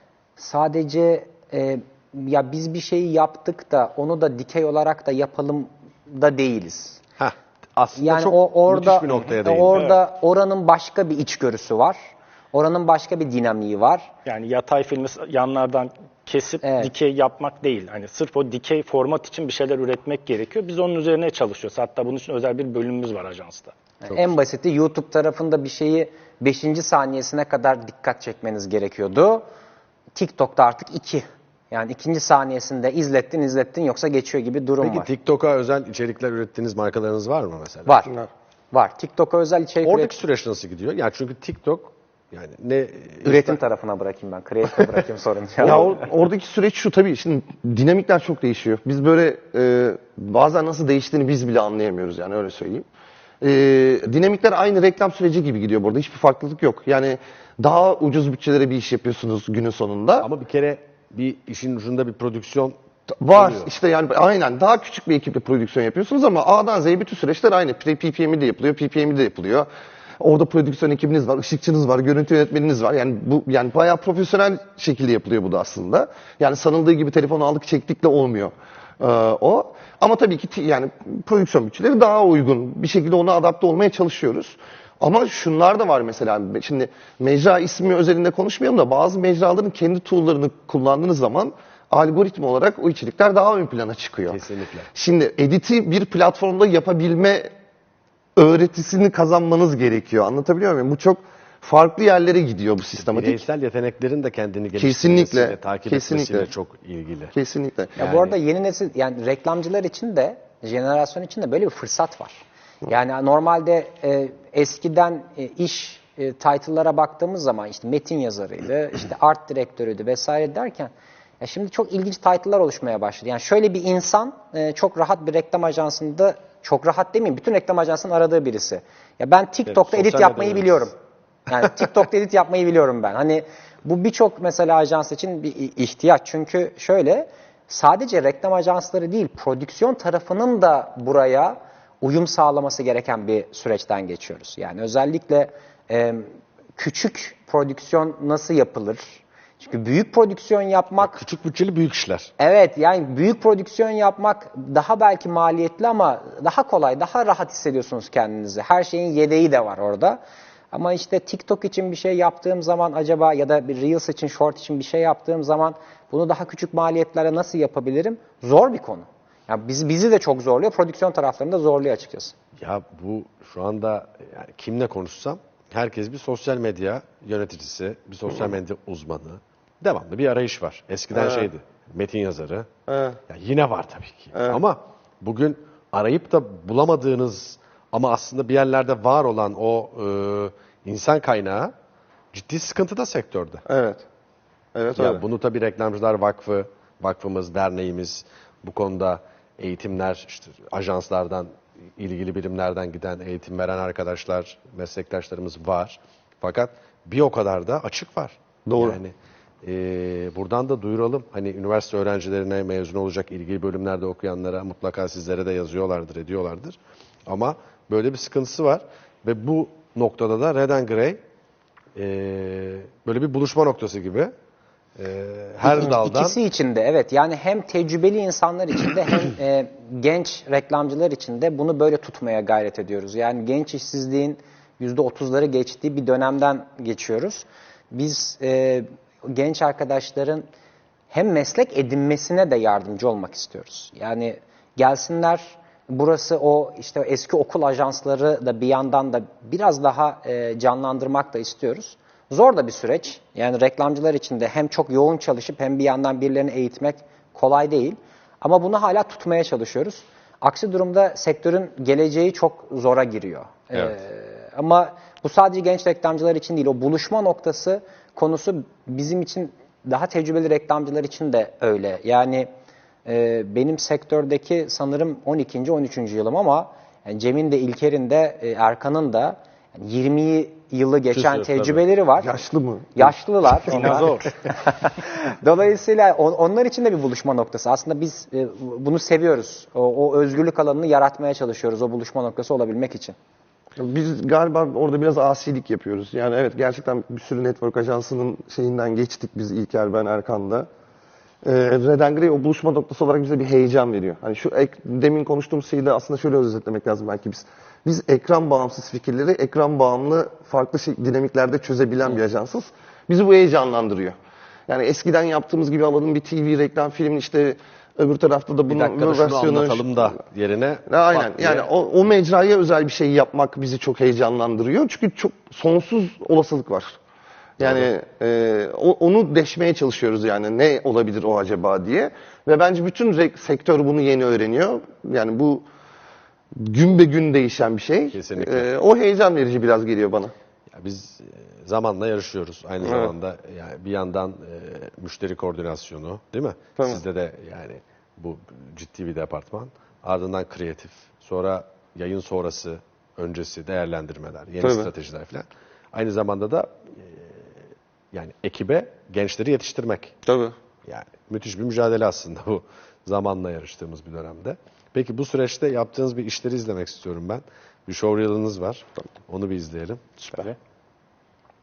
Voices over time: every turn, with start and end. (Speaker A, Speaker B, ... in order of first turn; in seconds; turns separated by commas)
Speaker A: 0.4-7.0, Speaker B: 7.2-9.9, Speaker A: 8.0-12.0, Speaker C: 9.7-10.0, Speaker A: 12.5-14.1, Speaker C: 14.3-23.8, Speaker A: 16.6-16.9, Speaker A: 24.0-29.4, Speaker B: 24.1-24.4, Speaker A: 30.1-35.1, Speaker B: 34.8-38.1, Speaker A: 37.9-38.1, Speaker A: 38.7-40.1, Speaker B: 39.8-43.6, Speaker A: 43.2-45.9, Speaker D: 45.6-52.9, Speaker D: 53.4-60.3, Speaker B: 60.2-62.8, Speaker D: 63.2-69.7, Speaker B: 63.3-63.7, Speaker D: 70.2-94.4, Speaker B: 94.3-94.9, Speaker D: 94.9-97.5, Speaker D: 98.4-103.4, Speaker B: 103.0-107.4, Speaker D: 104.8-106.5, Speaker D: 107.3-108.0, Speaker A: 108.0-130.9, Speaker B: 108.0-108.3, Speaker B: 129.7-130.9, Speaker A: 131.5-151.2, Speaker B: 151.0-152.3, Speaker A: 152.4-160.2, Speaker A: 160.7-172.3, Speaker B: 172.6-182.7, Speaker D: 181.2-181.5, Speaker D: 182.9-183.2, Speaker B: 183.3-191.7, Speaker B: 192.3-193.6, Speaker D: 193.7-194.1, Speaker D: 194.8-195.2, Speaker B: 194.9-221.2, Speaker D: 208.7-209.0, Speaker B: 221.9-224.3, Speaker B: 225.0-226.4, Speaker A: 225.7-240.4, Speaker A: 241.1-272.5, Speaker A: 273.1-282.4, Speaker B: 281.1-281.8, Speaker D: 282.2-283.1, Speaker A: 283.0-293.2, Speaker B: 283.7-284.3, Speaker C: 283.7-284.2, Speaker D: 293.8-300.7, Speaker D: 301.4-314.2, Speaker D: 314.7-320.2, Speaker B: 318.7-321.7, Speaker D: 320.9-327.0, Speaker D: 327.6-335.6, Speaker B: 327.6-327.9, Speaker D: 336.6-340.3, Speaker B: 338.1-338.7, Speaker B: 340.7-360.2, Speaker D: 342.8-343.1, Speaker D: 354.6-354.9, Speaker D: 360.3-360.6, Speaker B: 360.9-370.5, Speaker A: 370.3-370.6